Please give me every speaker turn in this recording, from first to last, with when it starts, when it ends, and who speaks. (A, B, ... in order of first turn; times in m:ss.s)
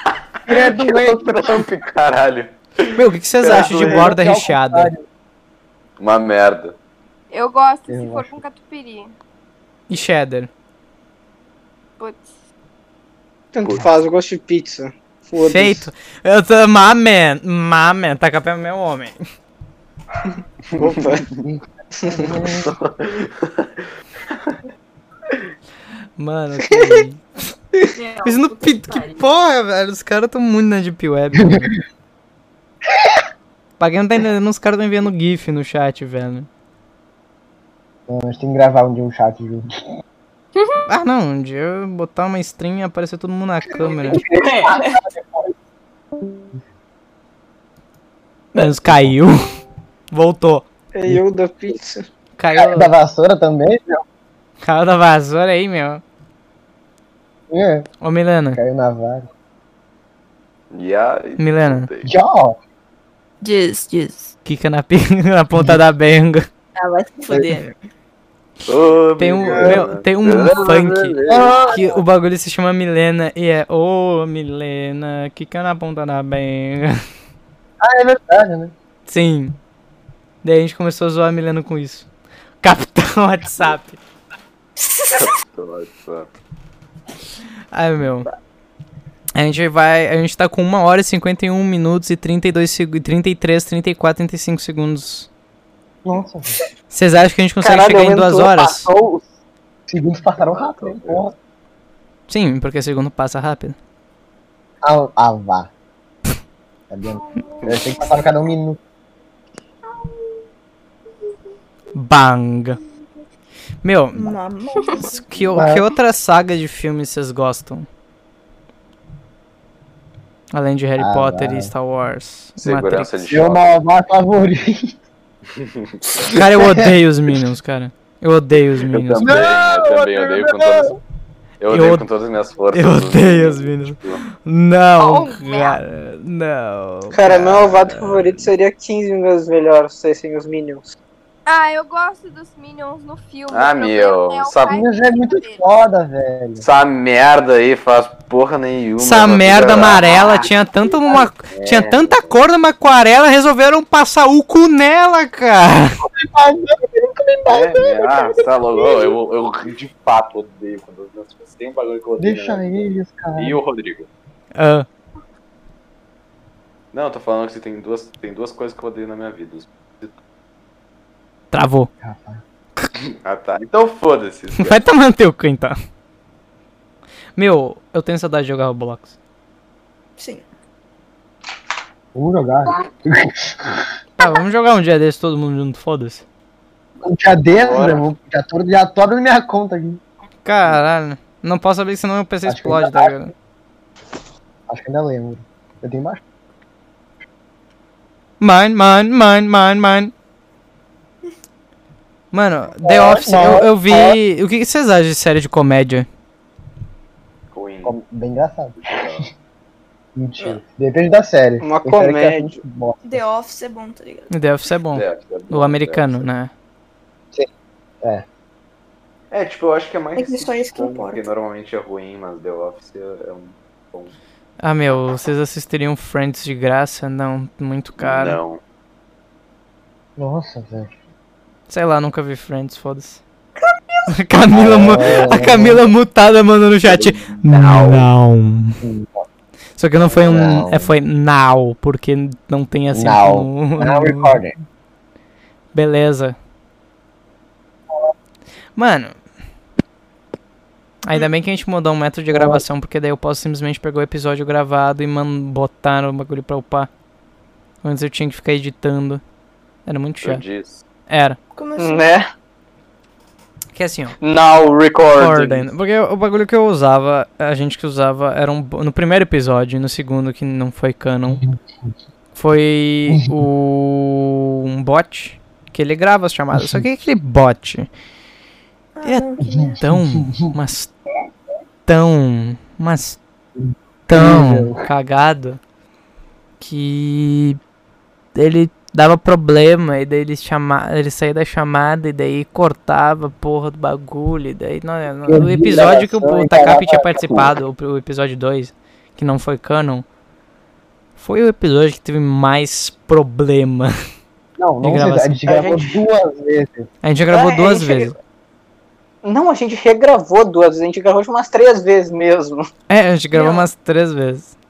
0:00.4-0:01.6 A
0:00.4-0:04.1 B
0:03.0-0:04.9 C
0:03.5-0:05.0 A
0:06.0-0:06.7 B
0:07.3-0:09.1 D
0:07.9-0:08.4 A
0:09.9-0:10.5 C
0:12.0-0:12.3 D
0:13.5-0:15.9 E
0:15.4-0:19.2 C
0:20.8-0:21.0 B
0:20.8-0:21.2 E
0:21.4-0:22.7 A
0:22.0-0:22.2 E
0:22.6-0:23.7 B
0:26.2-0:27.2 C
0:26.6-0:27.0 E
0:28.0-0:29.2 F
0:28.2-0:31.7 C
0:33.8-0:36.5 C
0:38.1-0:39.7 A
0:40.9-0:44.2 C
0:44.0-0:45.0 F
0:44.1-0:45.5 A
0:48.5-0:49.4 C
0:48.8-0:49.1 A
0:50.1-0:50.6 C
0:50.9-0:52.1 E
0:52.4-0:52.9 C
0:52.5-0:54.0 A
0:54.6-0:56.0 C
0:57.5-0:57.9 A
0:58.0-0:58.6 C
0:58.5-0:59.3 A
1:00.7-1:02.1 B
1:01.4-1:01.9 C
1:02.0-1:02.6 A
1:03.4-1:04.3 F
1:04.4-1:06.5 C
1:06.8-1:07.8 F
1:08.6-1:11.7 B
1:09.2-1:17.0 C
1:09.5-1:09.8 A
1:11.3-1:11.8 A
1:17.8-1:18.7 A
1:19.1-1:19.5 C
1:20.4-1:22.1 C
1:22.6-1:24.0 C
1:24.8-1:25.3 F
1:25.1-1:26.3 B
1:27.7-1:28.3 C
1:29.3-1:35.3 C
1:36.0-1:36.6 A
1:36.9-1:38.9 C
1:37.6-1:39.2 E
1:39.9-1:41.3 A
1:40.4-1:41.3 B
1:42.3-1:43.8 C
1:44.8-1:45.7 A
1:46.9-1:48.8 A
1:47.6-1:48.1 B
1:51.9-1:52.8 C
1:53.8-1:54.4 C
1:54.1-1:55.2 F
1:55.2-1:57.9 C
1:55.3-1:55.6 B
1:55.6-1:55.8 A
2:00.5-2:03.2 C
2:01.0-2:01.7 A
2:02.6-2:03.8 B
2:03.3-2:05.0 A
2:05.6-2:05.8 B
2:06.3-2:09.4 C
2:06.4-2:06.9 A
2:08.8-2:10.9 B
2:09.2-2:11.0 A
2:11.6-2:14.2 B
2:11.7-2:12.0 C
2:12.7-2:18.4 C
2:15.0-2:15.8 D
2:17.1-2:20.9 E
2:17.3-2:17.5 B
2:21.4-2:25.6 D
2:23.5-2:24.8 B
2:24.7-2:26.6 A
2:26.6-2:32.4 B
2:29.0-2:36.0 C
2:36.0-2:39.2 A
2:37.5-2:44.1 B
2:42.2-2:43.6 A
2:44.6-2:44.9 C
2:46.9-2:50.1 B
2:51.5-2:51.9 C
2:52.0-2:52.4 A
2:53.2-2:54.8 B
2:54.6-2:55.8 C
2:57.4-2:59.1 C
3:00.2-3:00.4 F
3:02.1-3:03.8 A
3:04.2-3:06.2 C
3:07.0-3:10.0 A
3:07.6-3:08.0 E
3:10.4-3:13.3 C
3:12.5-3:13.1 A
3:14.7-3:16.2 A
3:18.4-3:20.1 C
3:22.3-3:26.1 C
3:22.8-3:24.2 A
3:27.5-3:28.0 B
3:27.8-3:28.8 A
3:28.8-3:29.3 B
3:30.1-3:33.2 A
3:31.6-3:32.6 E
3:33.0-3:34.3 F
3:34.3-3:36.5 C
3:34.9-3:36.2 B
3:39.3-3:44.1 B
3:40.1-3:41.3 F
3:44.6-3:48.4 C
3:48.0-3:48.6 B
3:50.2-3:50.9 A
3:51.7-3:53.2 C
3:53.6-3:54.1 F
3:54.1-3:58.8 C
3:54.5-3:55.8 A
3:56.8-3:58.1 B
3:58.8-3:59.2 A
3:59.8-4:04.4 C
4:00.3-4:00.9 A
4:02.9-4:04.5 A
4:05.7-4:06.4 C
4:08.8-4:09.2 C
4:11.0-4:16.9 C
4:12.3-4:12.6 A
4:17.8-4:19.2 C
4:19.8-4:20.4 C
4:20.2-4:20.8 B
4:21.1-4:21.4 C
4:21.5-4:22.1 F
4:21.8-4:22.2 E
4:23.7-4:24.2 C
4:24.2-4:25.7 E
4:25.1-4:31.4 C
4:32.3-4:37.9 C
4:36.5-4:36.8 A
4:38.9-4:39.8 F
4:39.0-4:40.9 C
4:39.4-4:40.5 A
4:41.9-4:43.2 C
4:43.6-4:44.8 A
4:44.1-4:45.6 C
4:46.6-4:47.6 C
4:48.3-5:00.0 C
4:55.3-4:57.5 A
5:01.2-5:03.9 C
5:04.6-5:06.9 A
5:04.8-5:05.4 C
5:05.4-5:06.0 E
5:07.0-5:08.1 C
5:07.3-5:08.1 E
5:09.2-5:12.6 E
5:12.9-5:14.5 C
5:13.3-5:13.7 F